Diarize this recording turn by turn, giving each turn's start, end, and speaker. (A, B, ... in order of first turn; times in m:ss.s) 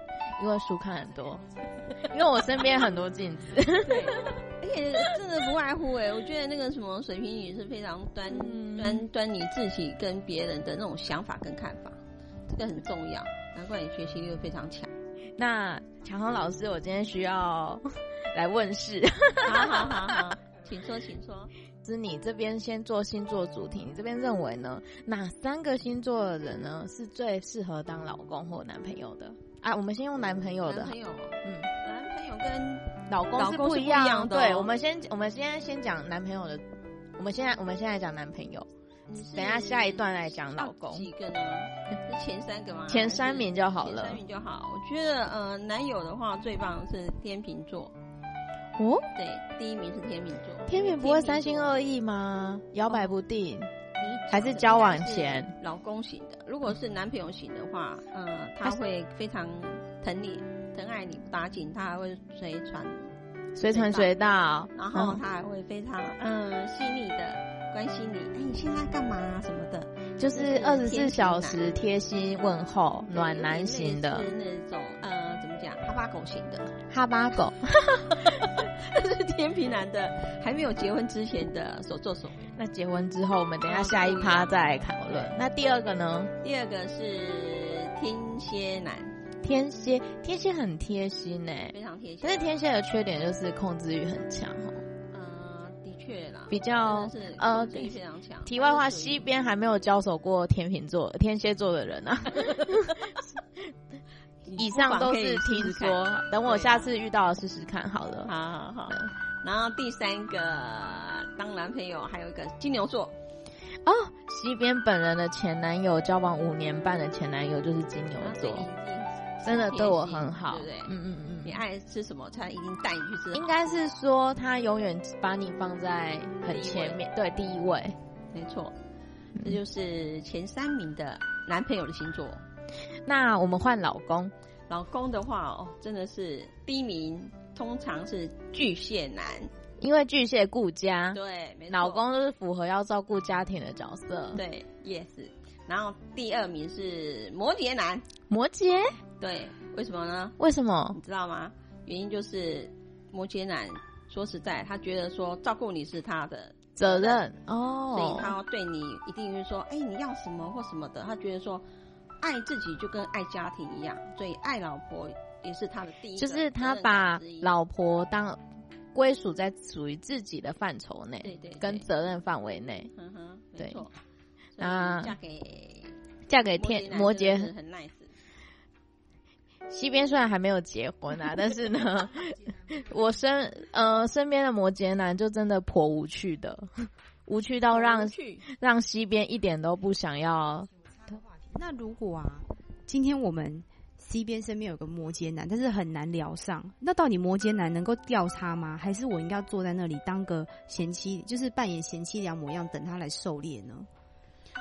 0:00.4-0:04.3 A
0:03.8-0:14.9 B
0:08.3-0:09.1 A
0:15.4-0:20.4 A
0:19.4-0:21.5 B
0:21.8-0:31.7 A
0:30.6-0:34.7 B
0:33.1-0:36.6 A
0:37.2-0:38.7 A
0:39.1-0:48.0 B
0:39.3-0:41.1 A
0:42.9-0:44.2 A
0:48.8-0:49.1 A
0:49.2-0:51.8 B
0:50.7-0:53.7 A
0:54.0-1:03.1 B
0:54.3-0:55.5 A
1:03.6-1:05.2 A
1:03.7-1:04.1 B
1:04.7-1:11.7 B
1:10.2-1:14.3 A
1:13.1-1:16.8 B
1:16.9-1:18.5 A
1:18.0-1:22.5 B
1:22.6-1:26.3 A
1:23.6-1:25.4 B
1:26.4-1:29.2 B
1:29.4-1:34.8 A
1:31.7-1:32.6 B
1:35.1-1:39.3 B
1:36.5-1:43.7 A
1:42.3-1:43.0 B
1:44.4-1:46.9 B
1:44.6-1:48.3 A
1:48.2-1:53.2 B
1:53.8-1:58.7 A
1:58.2-2:03.9 B
1:59.4-2:01.6 A
2:03.3-2:08.0 A
2:06.5-2:07.0 B
2:08.3-2:08.8 B
2:09.4-2:12.4 B
2:13.1-2:14.3 A
2:14.7-2:19.5 B
2:19.8-2:21.2 A
2:21.1-2:22.0 B
2:21.7-2:24.4 A
2:24.3-2:28.1 B
2:28.3-2:29.0 A
2:29.2-2:30.4 B
2:30.4-2:31.0 A
2:30.9-2:37.2 B
2:36.8-2:38.4 A
2:37.9-2:41.6 B
2:42.2-2:47.5 B
2:46.2-2:48.4 A
2:48.9-2:52.9 A
2:51.2-2:51.9 B
2:52.9-2:54.0 B
2:53.6-2:53.8 A
2:54.6-2:56.0 B
2:54.6-2:55.2 A
2:56.3-2:57.5 A
2:56.5-2:58.1 B
2:59.7-3:10.7 A
3:07.7-3:08.4 B
3:11.1-3:23.9 C